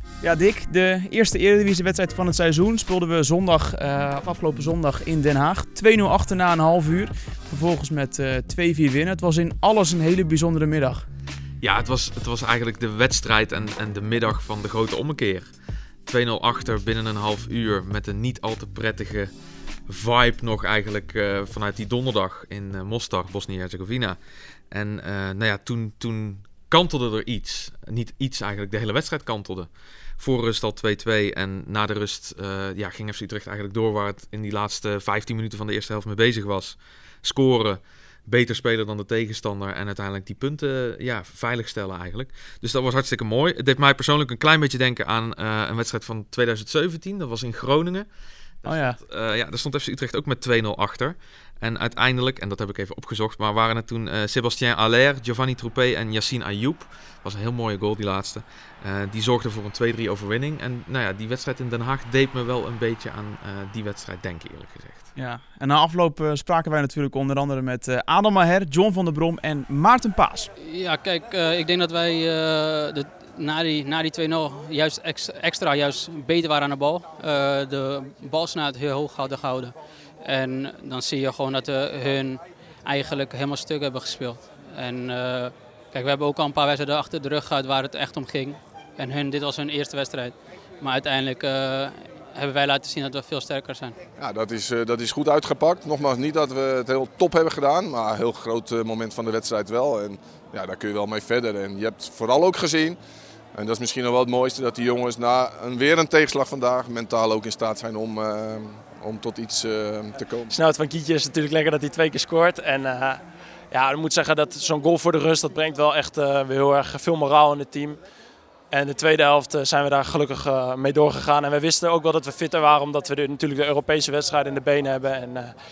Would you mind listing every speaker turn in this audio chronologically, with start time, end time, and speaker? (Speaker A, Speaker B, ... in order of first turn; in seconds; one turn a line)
Speaker A: 0.2-11.1
Speaker B: 11.6-15.5
Speaker B: 16.1-19.3
Speaker B: 19.9-24.2
Speaker B: 24.7-48.1
Speaker B: 48.6-65.1
Speaker A: 48.7-49.0
Speaker A: 65.2-70.5
Speaker C: 70.6-94.0
Speaker D: 94.2-103.0
Speaker D: 103.5-110.6
Speaker E: 110.6-113.2
Speaker E: 113.7-118.0
Speaker E: 118.7-125.5